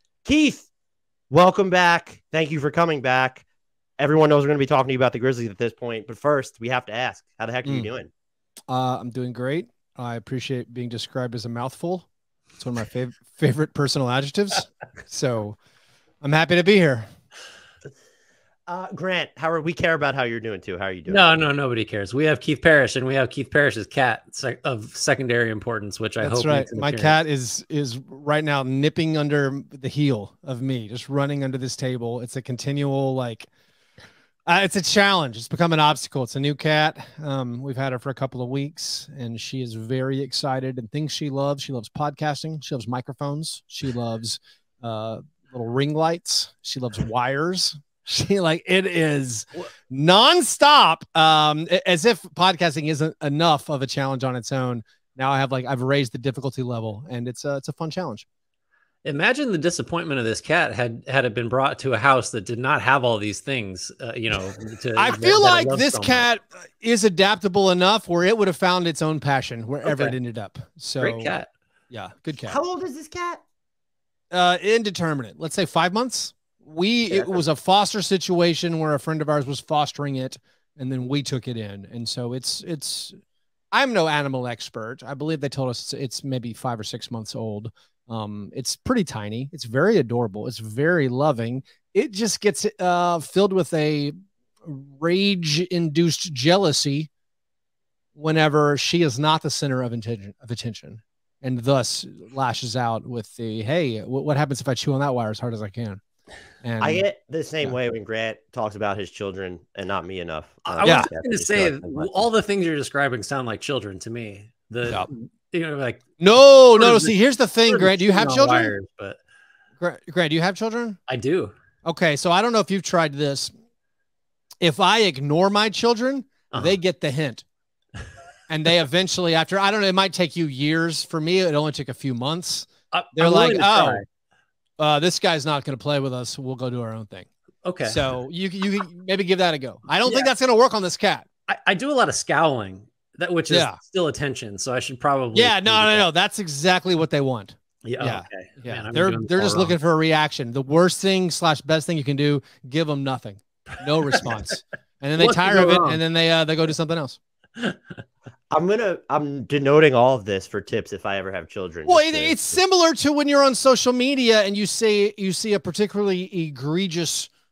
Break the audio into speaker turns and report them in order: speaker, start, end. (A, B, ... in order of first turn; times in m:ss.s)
0:00.2-0:00.7 A
0:01.3-0:03.4 A
0:04.0-0:08.1 A
0:08.7-0:12.1 B
0:12.6-0:15.6 B
0:16.2-0:17.1 B
0:18.7-0:21.3 A
0:21.1-0:27.2 C
0:26.2-0:33.5 B
0:34.5-0:58.3 B
0:59.0-1:06.2 C
1:05.0-1:11.4 B
1:09.8-1:10.1 C
1:11.0-1:11.5 C
1:11.9-1:12.6 B
1:12.5-1:13.4 A
1:14.3-1:23.2 B
1:23.7-1:34.1 B
1:34.6-1:37.1 B
1:38.2-1:46.0 B
1:46.6-1:47.0 B
1:46.8-1:52.3 A
1:50.7-1:56.0 C
1:50.8-1:51.1 B
1:56.2-1:58.8 B
1:56.8-1:59.2 C
1:59.8-2:01.0 B
2:01.1-2:01.5 C
2:01.8-2:03.5 B
2:04.6-2:07.4 B
2:08.5-2:14.0 B
2:12.9-2:14.0 C
2:14.8-2:17.3 B
2:17.6-2:18.1 C
2:17.9-2:21.3 B
2:21.5-2:26.0 C
2:23.5-2:23.8 B
2:25.3-2:37.2 B
2:27.8-2:29.8 C
2:35.2-2:36.0 C
2:38.5-2:42.6 A
2:41.9-2:47.3 B